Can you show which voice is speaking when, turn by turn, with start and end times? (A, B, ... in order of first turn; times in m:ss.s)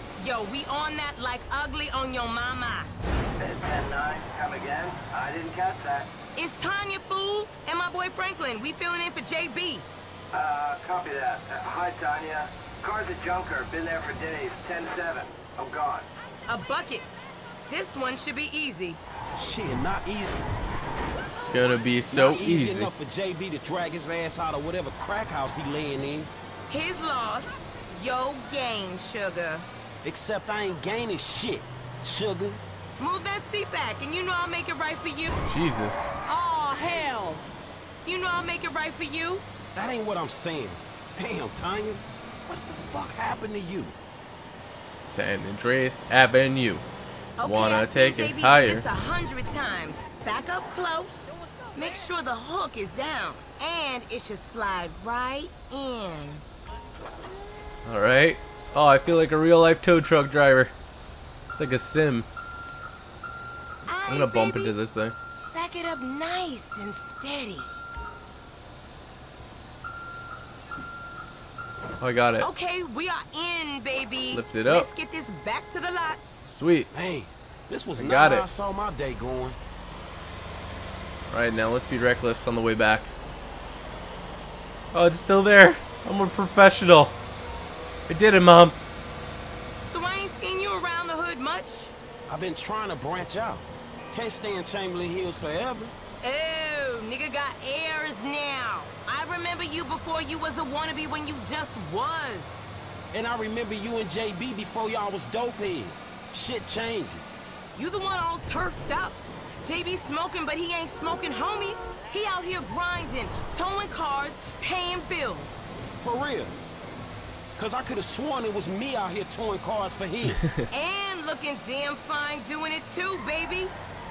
0:00.2-0:02.9 A
0:03.4-0:06.1 B
0:06.3-0:09.9 A
0:10.3-0:16.0 B
0:16.4-0:17.1 A
0:17.6-0:19.0 A
0:19.3-0:20.4 C
0:21.2-0:22.0 A
0:21.4-0:22.9 D
0:22.1-0:26.3 C
0:26.7-0:29.7 A
0:30.0-0:32.6 C
0:33.0-0:35.4 A
0:35.4-0:36.1 D
0:36.3-0:37.4 A
0:38.0-0:39.4 A
0:39.7-0:44.0 C
0:45.0-0:46.8 D
0:47.4-0:56.4 A
0:47.4-0:48.9 D
0:57.8-1:00.7 D
1:01.5-1:02.3 D
1:03.8-1:04.7 A
1:04.1-1:05.2 D
1:05.5-1:07.7 A
1:12.0-1:12.5 D
1:12.4-1:16.4 A
1:14.3-1:14.9 D
1:16.5-1:16.9 D
1:16.9-1:19.6 C
1:17.9-1:18.4 D
1:21.3-1:23.1 D
1:24.9-1:27.2 D
1:28.1-1:28.8 D
1:29.8-1:31.9 A
1:32.3-1:35.9 C
1:36.2-1:42.6 A
1:43.1-1:47.3 C
1:47.7-1:55.7 A
1:56.0-1:56.6 C
1:57.6-2:00.4 C
2:00.2-2:00.7 D
2:00.7-2:03.7 A